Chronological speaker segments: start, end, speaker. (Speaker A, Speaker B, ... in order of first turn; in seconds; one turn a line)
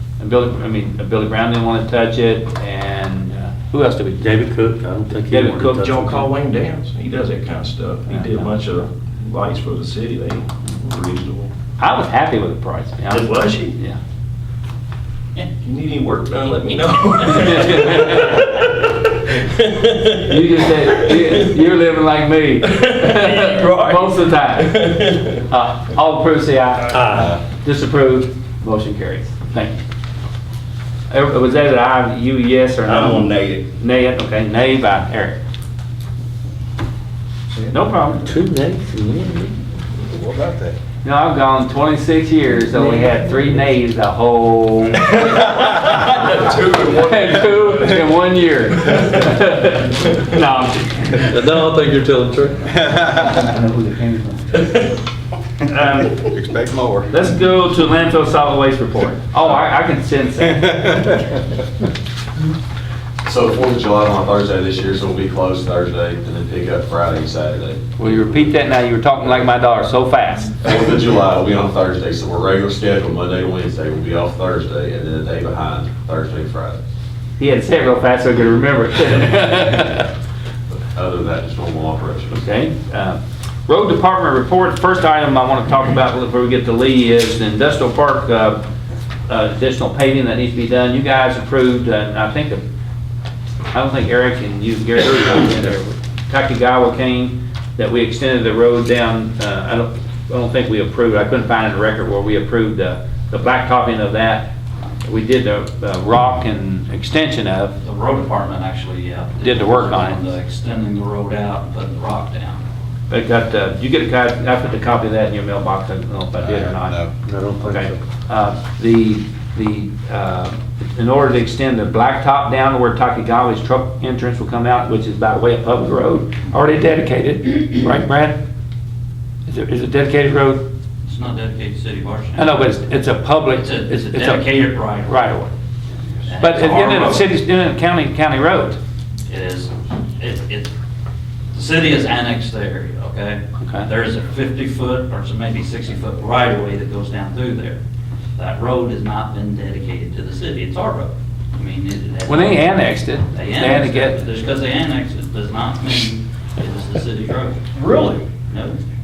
Speaker A: 0.2-4.2
Speaker B: 4.2-6.0
Speaker A: 5.3-6.3
Speaker C: 5.8-11.5
Speaker A: 8.1-8.5
Speaker A: 11.8-14.0
Speaker C: 13.1-13.8
Speaker C: 15.6-20.2
Speaker A: 17.4-18.5
Speaker A: 20.1-29.8
Speaker C: 20.9-21.4
Speaker C: 22.7-25.4
Speaker B: 26.9-27.4
Speaker A: 31.1-35.4
Speaker C: 32.9-33.7
Speaker D: 37.5-38.4
Speaker A: 37.7-38.3
Speaker B: 38.2-39.5
Speaker E: 40.1-40.8
Speaker A: 41.0-51.3
Speaker D: 42.8-43.4
Speaker E: 45.2-47.9
Speaker B: 51.3-52.7
Speaker E: 52.7-53.5
Speaker D: 53.2-54.8
Speaker A: 55.7-56.2
Speaker E: 56.1-57.1
Speaker A: 57.1-61.0
Speaker E: 60.4-61.4
Speaker F: 63.2-67.8
Speaker A: 68.0-70.6
Speaker F: 70.6-76.8
Speaker A: 77.4-80.1
Speaker F: 80.9-82.4
Speaker A: 82.3-88.6
Speaker A: 89.3-92.6
Speaker A: 93.7-104.5
Speaker A: 105.0-107.8
Speaker G: 107.8-112.6
Speaker A: 109.4-110.2
Speaker A: 113.1-117.0
Speaker E: 116.4-117.1
Speaker B: 117.2-118.0
Speaker A: 117.7-128.4
Speaker A: 129.5-130.7
Speaker G: 131.1-132.6
Speaker A: 132.4-135.5
Speaker G: 133.5-135.3
Speaker G: 136.3-137.3
Speaker A: 136.4-138.8
Speaker G: 139.3-140.7
Speaker G: 141.5-147.8
Speaker A: 143.6-143.9
Speaker G: 148.4-157.7
Speaker A: 152.3-154.3
Speaker C: 157.8-158.3
Speaker G: 158.5-158.8